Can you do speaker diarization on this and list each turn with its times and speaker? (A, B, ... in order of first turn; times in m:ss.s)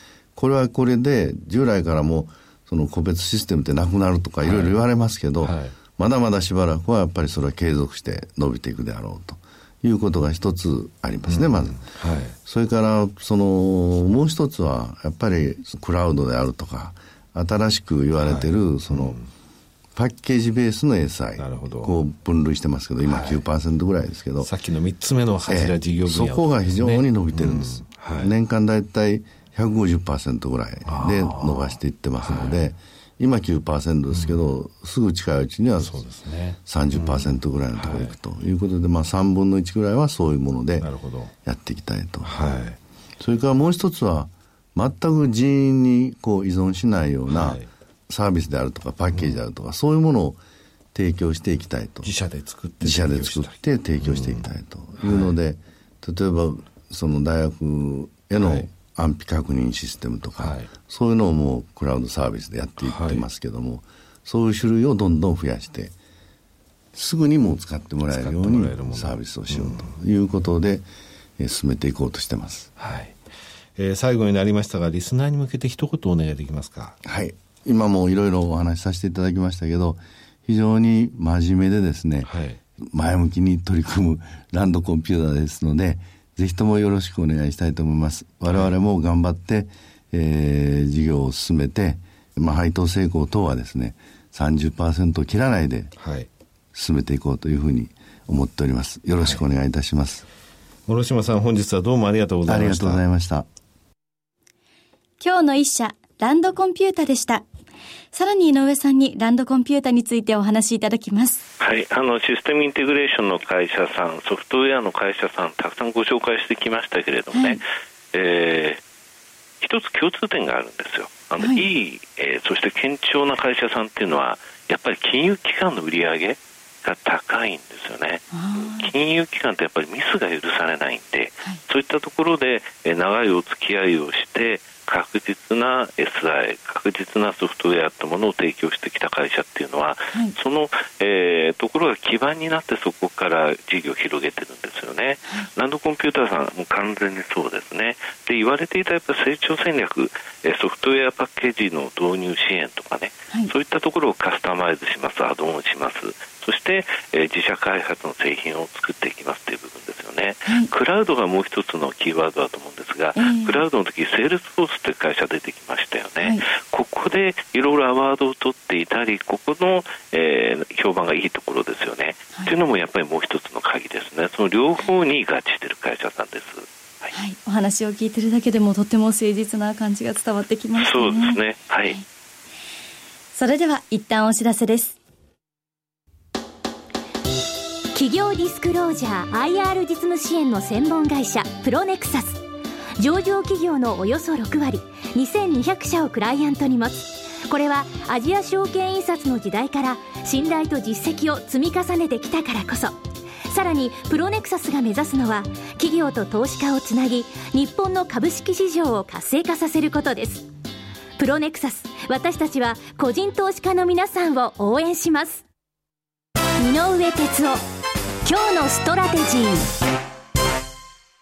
0:00.4-0:11.8 A
0:04.4-0:04.8 B
0:05.4-0:05.8 B
0:11.3-0:12.4 B
0:12.5-0:19.2 A
0:18.2-0:19.3 B
0:20.0-0:24.5 A
0:21.4-0:21.9 B
0:23.0-0:23.4 B
0:24.4-0:28.3 B
0:25.5-0:36.0 A
0:30.8-0:32.7 B
0:34.1-0:34.4 B
0:35.8-0:38.1 B
0:36.7-0:40.9 A
0:40.8-0:41.3 B
0:41.4-0:42.3 A
0:42.2-0:42.8 B
0:43.2-0:50.4 A
0:47.3-0:47.7 B
0:49.1-0:49.4 B
0:50.9-0:52.1 A
0:52.0-0:54.5 B
0:52.8-1:06.0 A
0:55.0-0:55.4 B
0:58.4-0:58.7 B
1:00.4-1:00.7 B
1:02.8-1:03.2 B
1:06.9-1:10.9 A
1:08.1-1:09.9 B
1:11.4-1:12.7 A
1:12.8-1:13.2 B
1:13.8-1:17.0 B
1:17.0-1:35.9 A
1:22.3-1:22.6 B
1:36.0-1:36.3 B
1:36.7-1:40.3 A
1:40.9-1:43.0 B
1:42.5-1:43.5 A
1:45.2-1:47.4 C
1:48.1-1:51.4 C
1:51.6-1:58.8 D
1:57.3-1:57.6 C
1:59.6-2:57.1 D
2:01.4-2:01.6 C
2:08.3-2:08.9 C
2:43.2-2:43.6 C
2:57.1-3:02.0 C
3:00.8-3:02.0 D
3:03.3-3:05.0 C
3:07.9-3:12.4 E
3:13.0-3:30.5 E
3:31.2-3:35.4 E
3:36.6-3:37.6 E
3:38.2-3:39.7 E